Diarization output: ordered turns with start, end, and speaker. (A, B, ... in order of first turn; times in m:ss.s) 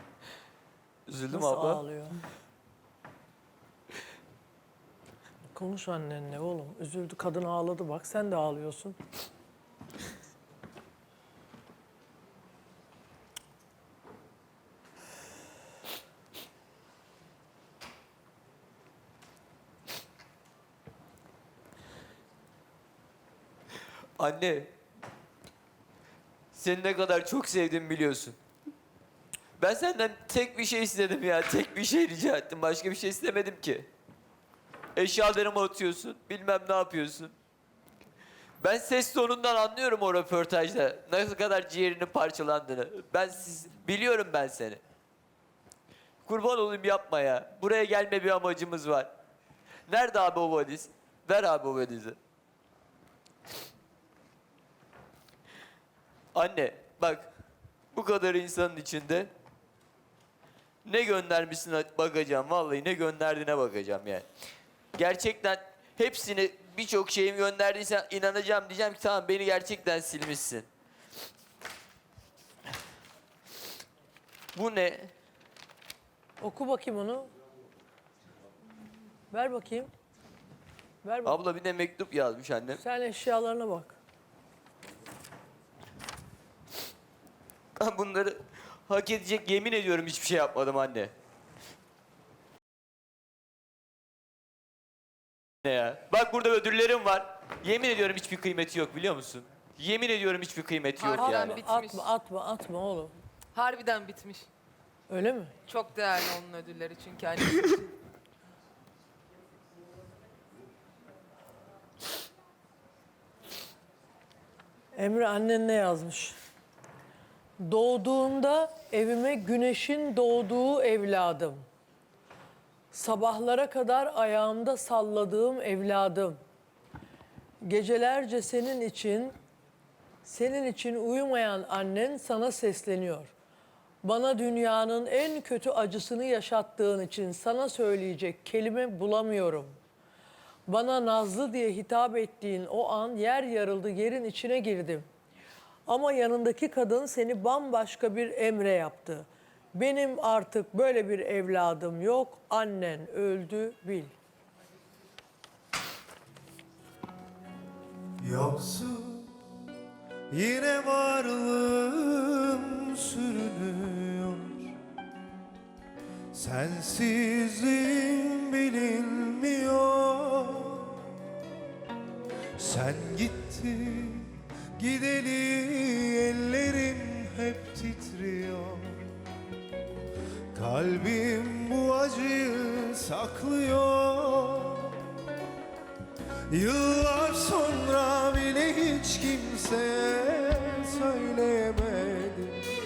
0:01.1-0:01.8 A
0:01.3-0:02.2 B
0:05.5-0:09.0 B
0:24.2-0:24.7 A
0:26.5-0:28.4 A
0:29.6-0:33.9 A
0:35.0-0:37.3 A
0:38.6-0:44.8 A
0:46.2-0:49.1 A
0:49.9-0:52.2 A
0:56.3-0:57.3 A
0:57.9-0:59.3 A
1:00.8-1:04.2 A
1:05.0-1:10.7 A
1:14.5-1:15.1 A
1:16.4-1:17.3 B
1:19.3-1:19.9 B
1:21.0-1:21.4 B
1:21.2-1:22.8 A
1:22.8-1:24.0 B
1:27.8-1:31.1 A
1:35.6-1:41.6 A
1:41.0-1:42.1 C
1:41.2-1:43.1 B
1:43.5-1:44.5 C
1:45.1-1:45.5 B
1:45.6-1:47.9 C
1:54.9-1:56.4 B
1:57.6-2:01.6 B
2:02.9-2:06.4 B
2:07.6-2:09.3 B
2:10.2-2:13.3 B
2:14.0-2:19.8 B
2:20.7-2:25.1 B
2:25.9-2:34.1 B
2:38.2-2:39.3 D
2:40.3-2:44.7 D
2:46.3-2:51.0 D
2:52.6-2:59.1 D
3:00.5-3:04.9 D
3:06.5-3:12.6 D